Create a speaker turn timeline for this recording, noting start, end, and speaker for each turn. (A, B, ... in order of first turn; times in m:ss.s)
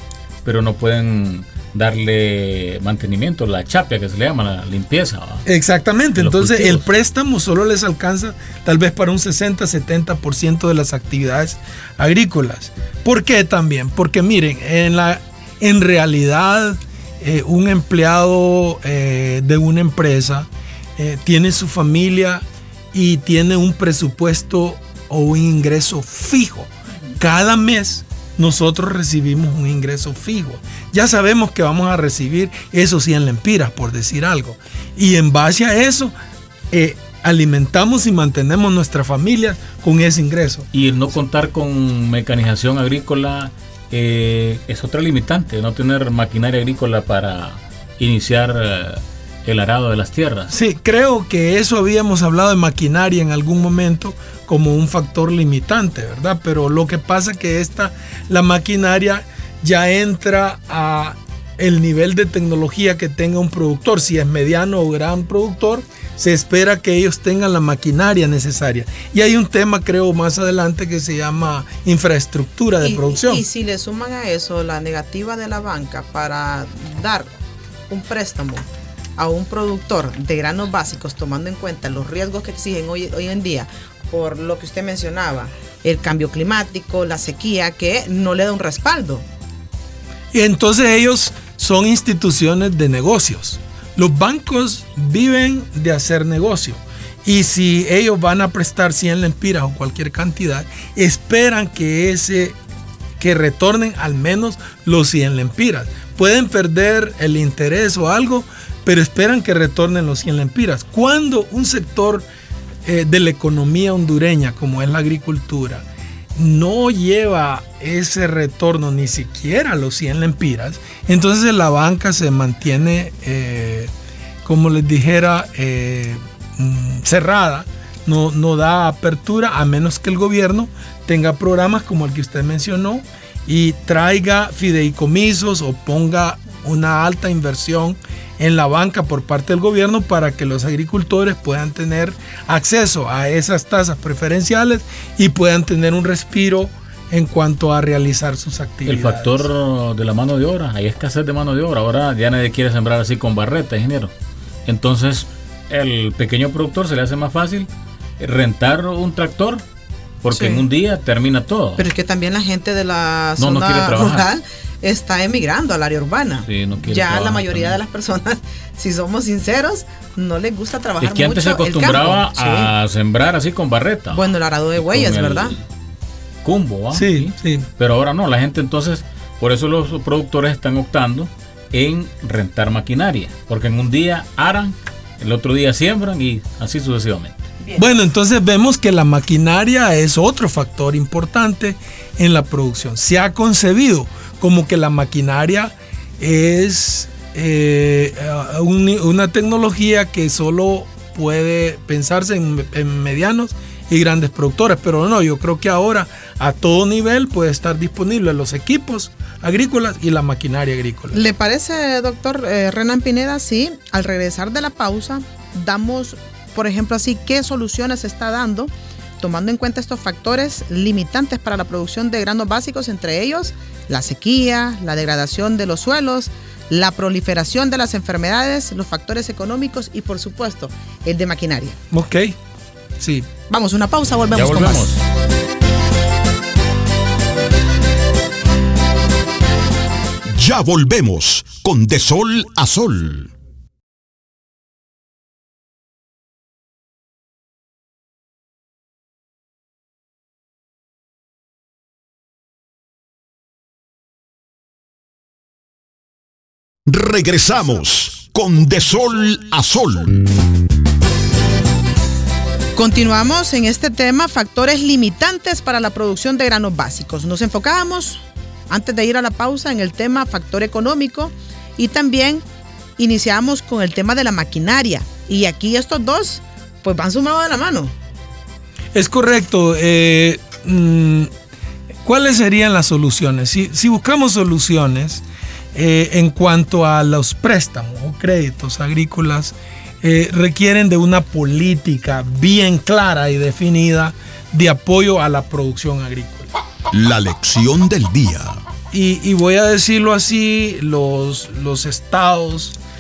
0:00.4-0:05.5 A
0:05.5-0:36.1 B
0:06.2-0:06.8 A
0:36.7-0:40.7 B
0:40.7-0:50.5 A
0:50.5-1:13.4 B
1:12.8-1:17.3 C
1:17.9-1:18.6 C
1:19.2-1:29.3 C
1:30.3-1:42.6 B
1:43.2-1:52.3 B
1:52.8-2:03.9 B
2:04.4-2:29.5 B
2:28.9-2:34.1 A
2:34.7-2:39.6 A
2:40.2-2:41.9 A
2:40.3-2:40.6 C
2:41.8-2:52.7 C
2:43.4-2:44.3 A
2:46.5-2:47.8 A
2:51.0-2:55.6 A
2:54.1-2:55.6 C
2:56.4-3:07.5 A
2:56.9-2:57.7 B
3:07.7-3:31.2 B
3:31.1-3:51.8 C
3:51.9-3:52.4 B
3:53.0-3:53.3 B
3:53.5-3:54.9 C
3:54.3-3:55.0 A
4:00.3-4:03.3 D
4:16.9-4:20.2 D
4:22.8-4:32.4 C
4:33.0-4:37.9 C
4:38.9-4:41.3 B
4:42.0-4:56.5 B
4:56.9-4:58.6 D
4:58.9-5:02.8 B